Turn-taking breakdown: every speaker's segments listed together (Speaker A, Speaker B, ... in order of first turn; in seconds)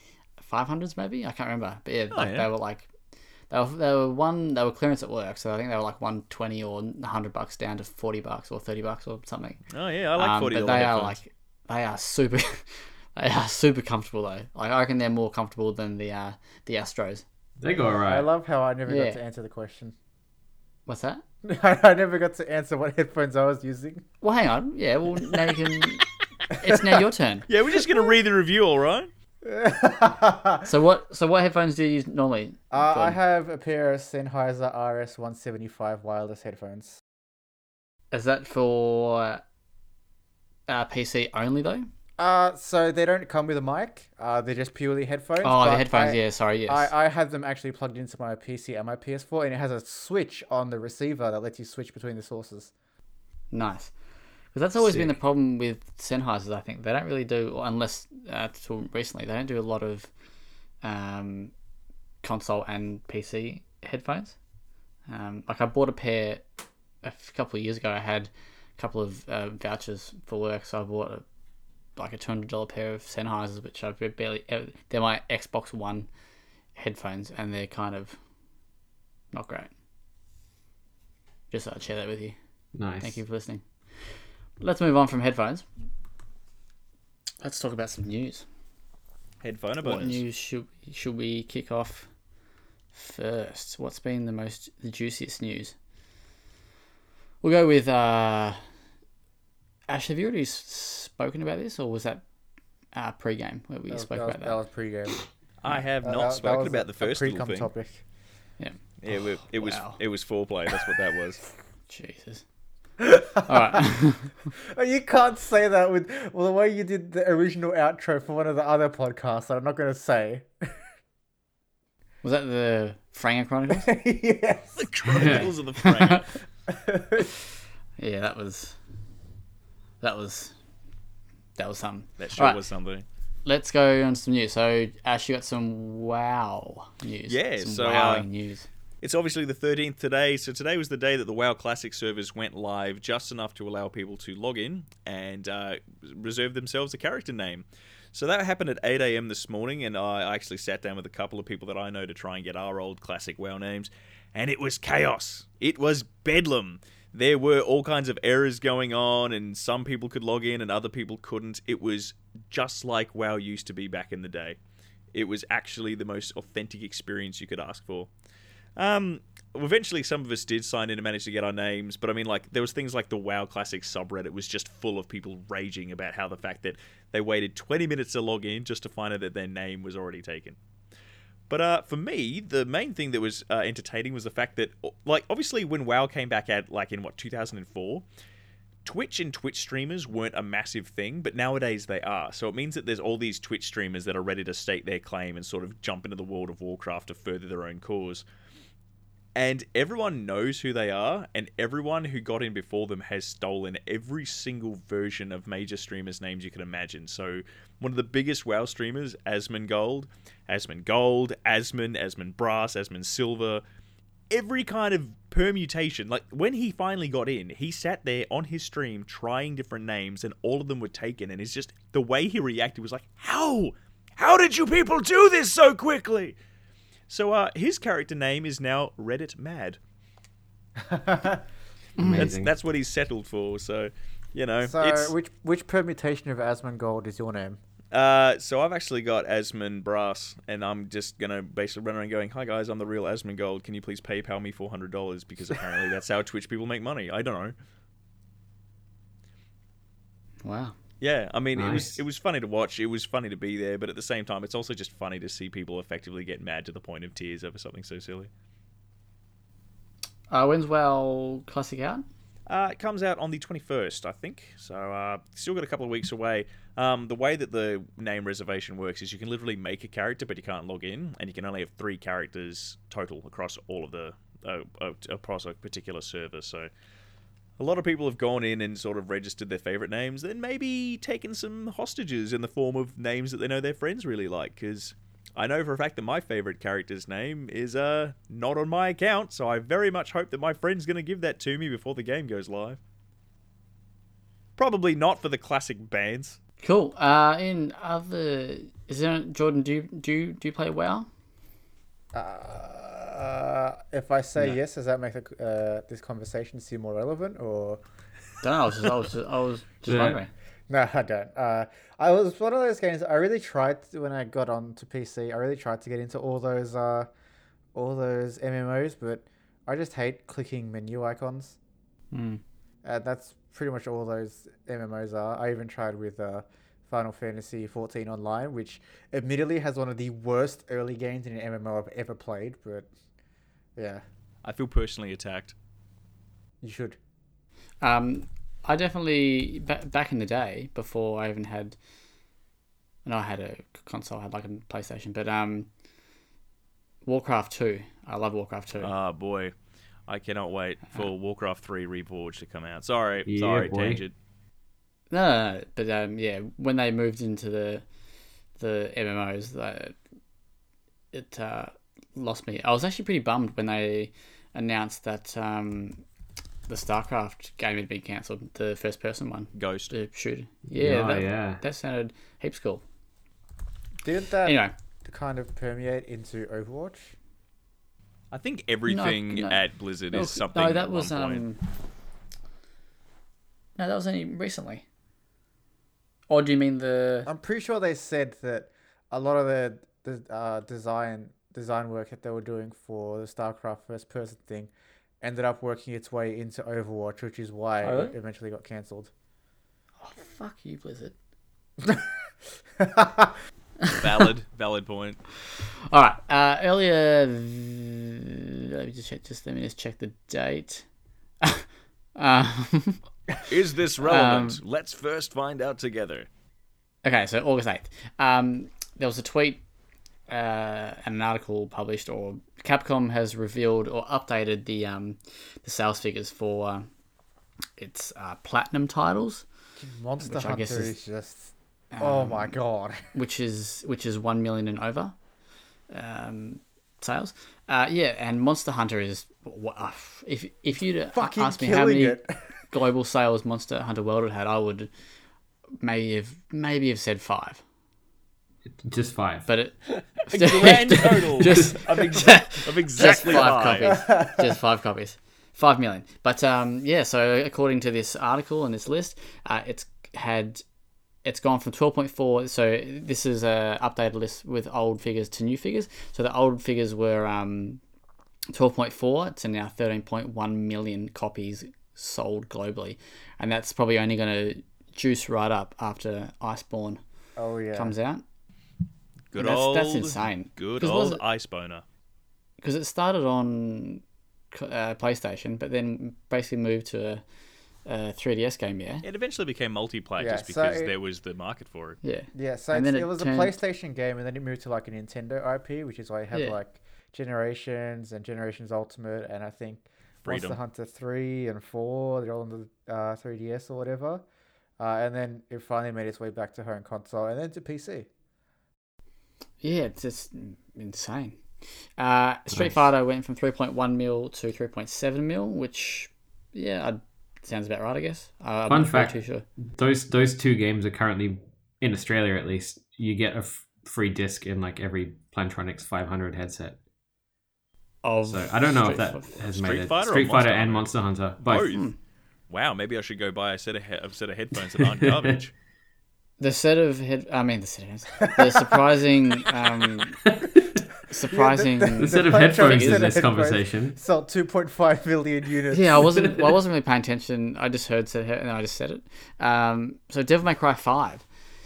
Speaker A: 0.4-2.9, 3.5-9.6, 10.2-17.2, 18.9-19.2, 20.9-21.2, 24.2-27.5, 30.6-33.2, 38.1-39.4, 40.7-41.9, 45.4-46.9, 53.5-53.9, 54.5-60.1, 60.8-61.5, 62.2-64.3, 65.1-66.4, 67.0-71.2, 72.0-76.1, 76.8-78.2, 79.3-79.7, 81.5-82.3, 83.0-83.6, 84.6-85.6, 87.4-88.4, 89.8-92.1, 92.9-95.7, 97.4-98.6, 99.9-102.2, 102.9-104.5, 109.5-110.0, 111.9-112.4, 113.5-114.3, 122.2-123.9, 125.1-126.2, 128.0-128.8, 130.0-130.5, 131.6-132.6, 133.4-138.7, 232.0-232.3, 250.4-250.7, 260.3-262.0, 296.6-301.1, 308.4-310.3, 322.1-322.4, 337.8-341.8, 343.0-345.7, 347.0-348.9, 355.1-357.8, 358.6-359.9, 361.1-366.0, 366.7-372.8, 374.4-374.7, 378.9-379.6, 380.1-381.6, 383.8-384.8, 386.3-387.3, 397.8-398.1, 400.0-401.1, 405.9-410.8, 411.4-413.0, 414.0-414.6, 417.0-419.6, 420.3-426.9, 427.8-429.4, 430.2-430.9, 431.9-432.6, 433.1-435.1, 435.9-442.2, 442.7-444.9, 445.8-447.6, 449.5-460.6, 461.2-467.8, 468.5-477.0, 477.7-478.2, 479.4-481.2, 482.6-487.2, 487.9-489.0, 492.0-493.6, 496.3-496.6, 509.6-511.4, 512.0-519.5, 528.0-529.4, 531.5-531.9, 536.4-540.2, 541.1-543.2, 545.7-551.2
Speaker B: 2.1-2.5, 9.7-11.2, 27.5-29.1, 89.4-90.2, 105.6-107.7, 109.0-111.4, 124.8-126.3, 132.2-133.1, 137.3-138.3, 139.0-164.6, 165.1-168.1, 168.8-180.6, 181.5-188.0, 188.8-198.2, 199.3-213.6, 214.3-226.3, 227.1-229.8, 232.1-235.1, 237.9-247.5, 251.0-258.3, 262.5-276.7, 277.6-292.8, 294.6-296.4, 334.4-335.5, 348.8-349.5, 350.1-354.1, 369.5-369.9, 378.3-381.4, 403.9-405.2, 413.4-416.3, 450.2-454.0, 479.3-481.8, 489.0-492.0, 500.2-500.6, 529.5-531.9, 532.5-535.5
Speaker C: 17.6-18.3, 54.8-55.1, 82.7-83.2, 125.1-125.5, 232.0-232.5, 251.6-252.0, 309.9-310.2, 353.2-354.0, 370.7-371.6, 448.8-449.5, 518.7-519.1, 519.6-526.8, 528.2-531.8, 534.8-535.4, 540.2-540.8, 542.0-544.0
Speaker D: 18.1-19.9, 21.4-24.0, 26.6-27.0, 29.4-30.7, 32.7-37.0, 42.2-52.7, 103.9-105.2, 106.0-108.0, 113.0-113.9, 114.6-120.7, 123.7-124.8, 126.7-127.3, 230.8-231.4, 234.6-237.6, 302.1-307.8, 310.7-317.1, 317.7-321.6, 322.8-332.9, 333.8-334.0, 336.6-337.0, 374.0-377.1, 387.2-394.7, 395.2-399.1, 402.8-403.3, 429.8-433.0, 441.1-442.4, 453.8-454.4, 477.4-477.9, 490.2-490.9, 492.3-504.2, 504.8-508.1, 538.2-538.9, 541.3-546.3